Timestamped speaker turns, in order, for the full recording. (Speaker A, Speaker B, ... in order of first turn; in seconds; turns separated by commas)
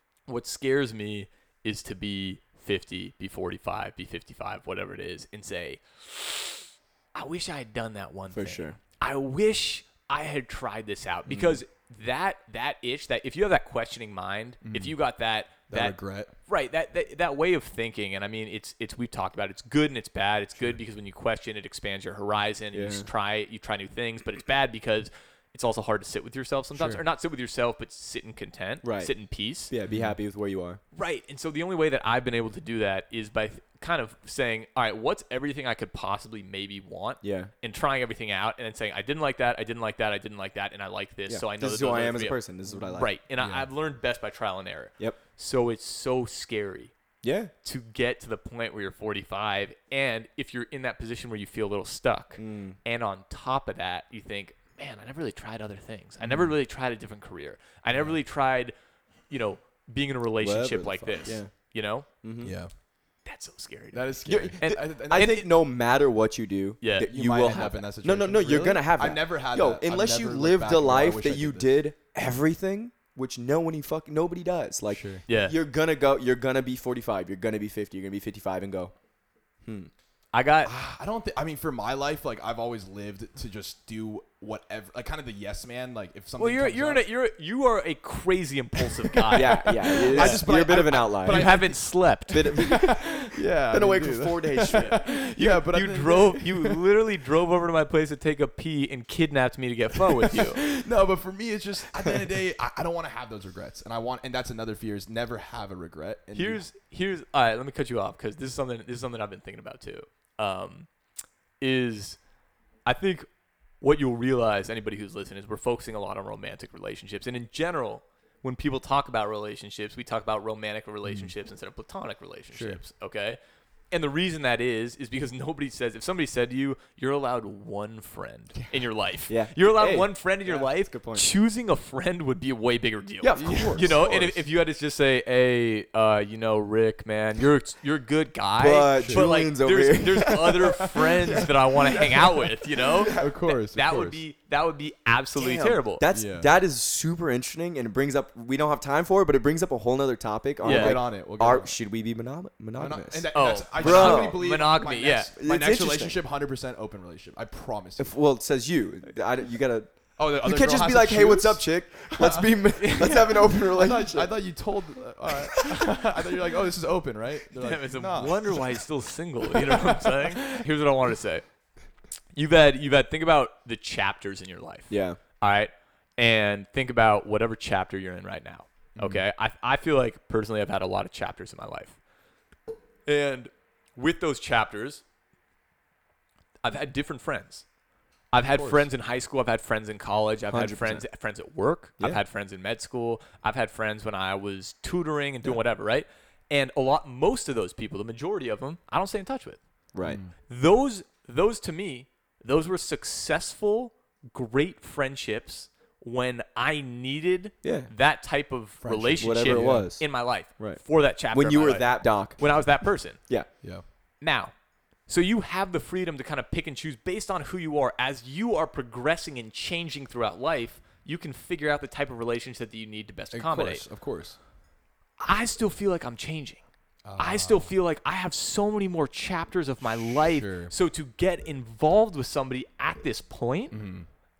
Speaker A: 0.3-29.7, Speaker B: 8.3-8.8, Speaker B: 11.3-11.6, Speaker C: 14.6-14.9, Speaker C: 15.7-16.3, Speaker B: 22.7-23.1, Speaker C: 26.7-27.0, Speaker B: 28.8-29.1, Speaker B: 29.7-30.8, Speaker C: 29.9-30.2, Speaker A: 30.9-46.9, Speaker B: 37.2-37.5, Speaker B: 41.3-43.1, Speaker C: 43.4-43.7, Speaker B: 47.2-47.5, Speaker A: 47.6-58.7, Speaker B: 52.4-52.8, Speaker C: 56.2-56.5, Speaker A: 59.3-62.1, Speaker B: 60.4-61.5, Speaker B: 62.2-62.5, Speaker C: 62.4-62.7, Speaker A: 63.2-65.4, Speaker C: 63.9-65.4, Speaker B: 64.2-78.9, Speaker A: 66.8-67.1, Speaker C: 67.0-71.8, Speaker C: 74.9-75.2, Speaker A: 75.3-75.5, Speaker B: 79.6-79.9, Speaker A: 80.3-80.7, Speaker C: 80.6-87.0, Speaker A: 86.4-90.5, Speaker C: 88.8-91.8, Speaker B: 89.3-91.5, Speaker A: 91.2-92.6, Speaker B: 92.3-95.0, Speaker C: 92.4-96.8, Speaker A: 94.7-100.6, Speaker C: 100.3-106.6, Speaker A: 106.3-110.9, Speaker A: 111.6-112.2, Speaker A: 112.8-113.3, Speaker A: 113.8-123.4, Speaker C: 121.0-121.3, Speaker C: 122.5-122.8, Speaker A: 123.9-146.0, Speaker B: 129.3-131.3, Speaker B: 133.2-133.9, Speaker C: 133.3-134.4, Speaker B: 138.6-143.3, Speaker C: 138.9-139.3, Speaker C: 143.1-144.2, Speaker B: 145.3-154.4, Speaker C: 146.1-146.5, Speaker C: 150.6-151.8, Speaker A: 150.6-151.0, Speaker C: 152.8-158.1, Speaker A: 153.3-155.3, Speaker B: 155.3-156.2, Speaker B: 158.0-159.9, Speaker C: 160.2-168.6, Speaker B: 160.4-164.3, Speaker A: 162.8-163.4, Speaker B: 165.5-165.9, Speaker A: 167.6-171.4, Speaker C: 169.5-170.6, Speaker A: 172.3-182.0, Speaker B: 174.9-175.2, Speaker A: 183.1-185.0, Speaker A: 186.6-187.6, Speaker A: 188.3-199.6, Speaker C: 188.4-188.9, Speaker B: 190.5-191.0, Speaker B: 199.9-200.2, Speaker C: 200.0-200.3, Speaker A: 200.5-213.2, Speaker B: 207.6-207.9, Speaker C: 208.8-209.9, Speaker B: 209.2-212.4, Speaker A: 214.2-214.5, Speaker A: 215.1-223.8, Speaker C: 223.3-224.4, Speaker A: 225.2-226.6, Speaker C: 227.0-227.7, Speaker A: 227.2-233.8, Speaker C: 230.2-230.7, Speaker C: 233.7-234.1